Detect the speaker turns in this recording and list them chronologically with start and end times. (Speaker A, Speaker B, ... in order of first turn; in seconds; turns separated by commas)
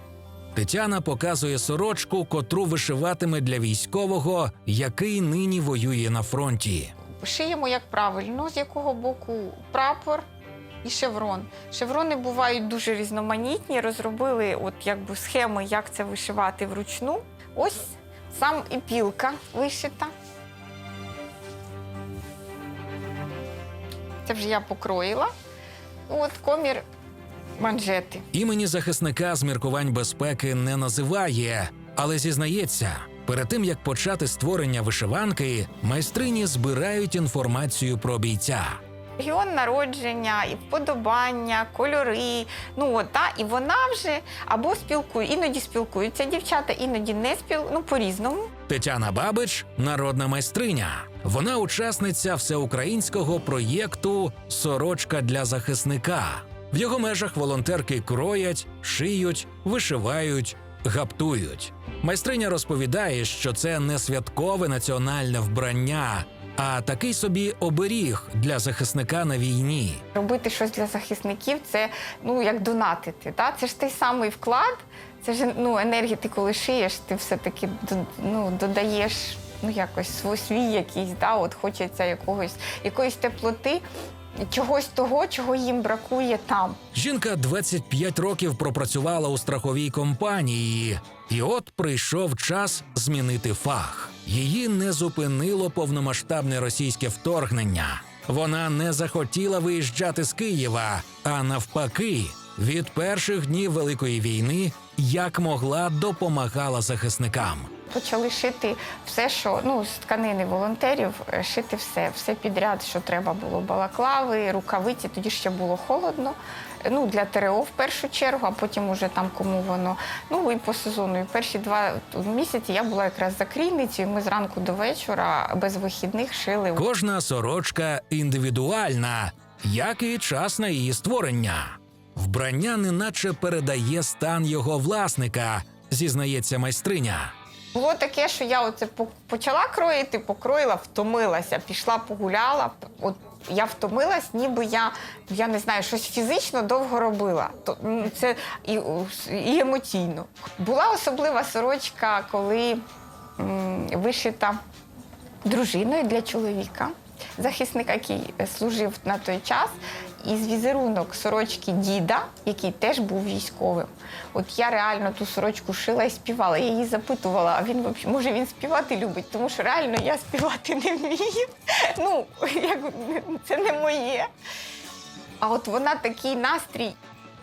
Speaker A: 0.6-6.9, Speaker B: 7.2-10.2, Speaker B: 10.8-20.1, Speaker B: 24.2-25.3, Speaker B: 26.1-26.8, Speaker B: 27.6-28.3, Speaker A: 28.3-38.8, Speaker B: 39.2-48.5, Speaker A: 48.7-70.0, Speaker B: 70.1-83.8, Speaker B: 84.5-86.8, Speaker A: 86.9-107.7, Speaker B: 107.9-126.8, Speaker A: 126.8-137.3, Speaker B: 137.7-152.8, Speaker B: 153.4-154.6, Speaker B: 155.4-174.3, Speaker B: 175.4-177.0